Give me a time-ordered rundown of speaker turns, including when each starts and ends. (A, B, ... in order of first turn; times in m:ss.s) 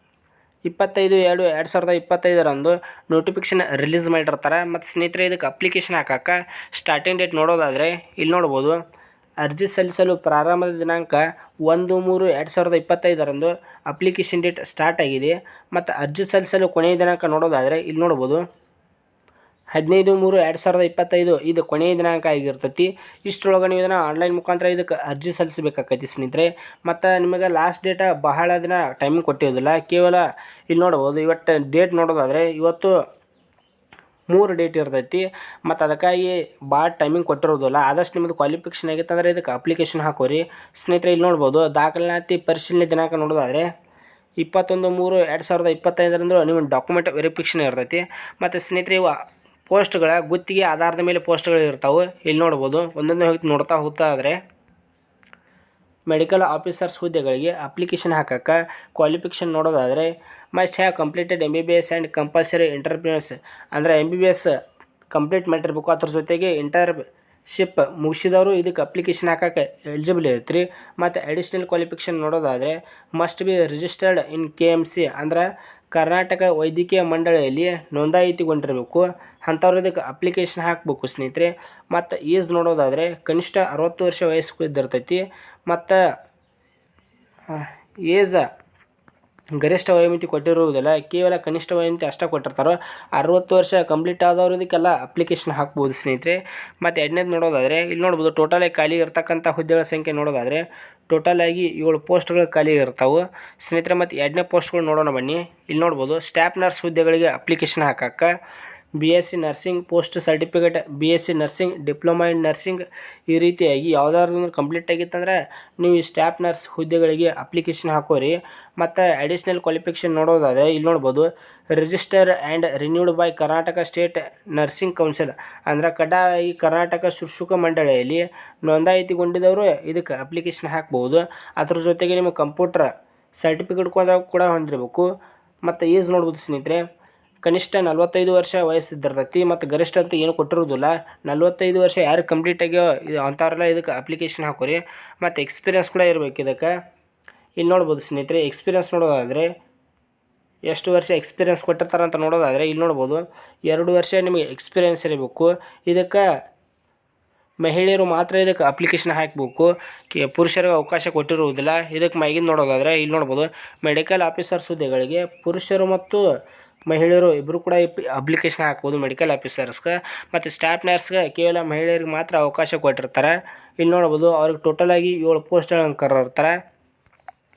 0:00.6-0:08.8 A
0:09.4-0:18.4 A
0:19.7-0:33.0 A
0:34.3-0:43.7 A
0:44.4-0:49.1 A
0:49.7-0:54.4 A
0:56.1-1:04.5 A
1:05.1-1:26.0 A
1:27.5-1:28.4 A
1:29.6-1:48.3 A
1:49.0-2:15.1 A
2:15.6-2:16.8 A
2:17.4-2:26.7 A
2:27.6-2:29.5 A
2:30.7-2:36.2 A
2:37.6-2:46.2 A
2:46.9-2:56.6 A